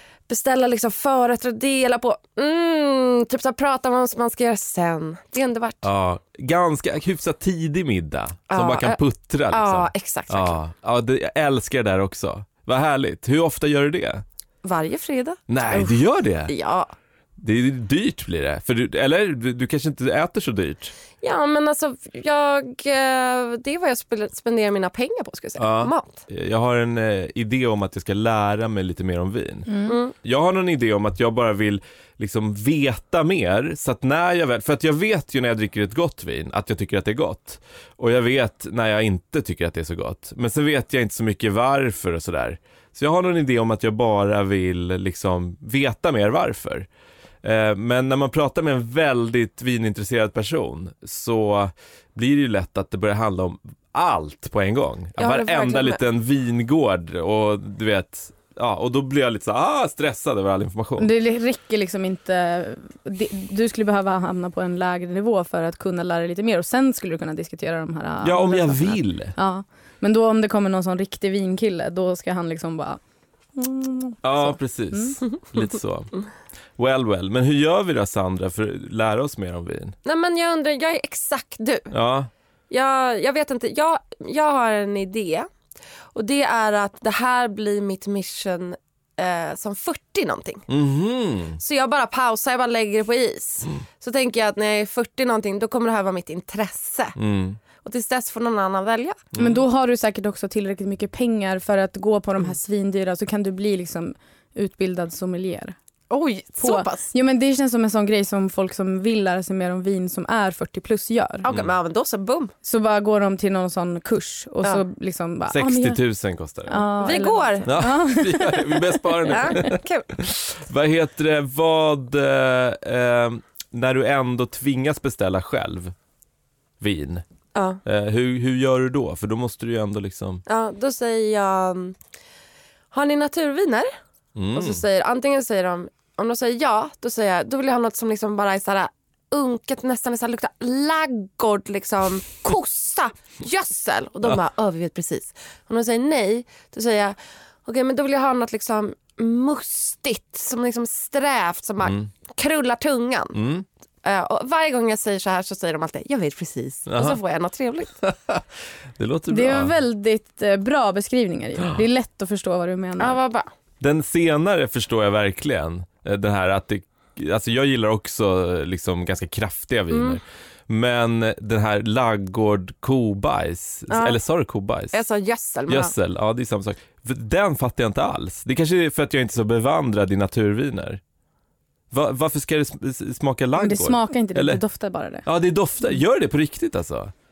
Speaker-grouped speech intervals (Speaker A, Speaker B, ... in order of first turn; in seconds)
Speaker A: 0.3-5.9, 8.5-10.6, 14.6-16.9, 21.2-26.2, 29.9-30.1, 55.2-56.0, 80.0-81.9, 82.7-85.5, 86.1-90.7, 91.6-97.2, 97.8-99.2, 106.1-107.1, 111.4-112.5, 117.0-117.8, 119.3-120.1, 127.5-127.8, 130.5-132.0, 132.9-133.9, 134.5-153.4, 154.0-157.9, 163.0-163.5, 169.9-170.2, 173.9-174.2, 174.9-175.9
Speaker B: 5.8-14.2, 15.5-16.5, 17.4-20.9, 25.6-46.9, 47.4-61.1, 68.2-69.3, 74.2-76.1, 76.8-80.0, 81.9-82.3, 90.7-91.6, 97.2-97.6, 99.3-99.6, 115.5-116.8, 117.7-125.9, 126.8-127.2, 127.8-130.4, 134.3-134.8, 151.8-152.1, 153.3-153.7, 156.9-157.2, 158.0-158.4, 159.0-159.8, 163.8-175.0, 175.7-181.0, 181.9-184.6, 185.2-187.1
Speaker C: 29.7-29.9, 61.0-73.0, 73.6-75.2, 99.4-105.8, 106.6-111.5, 112.6-116.0, 116.7-119.7, 159.3-163.2, 183.6-185.3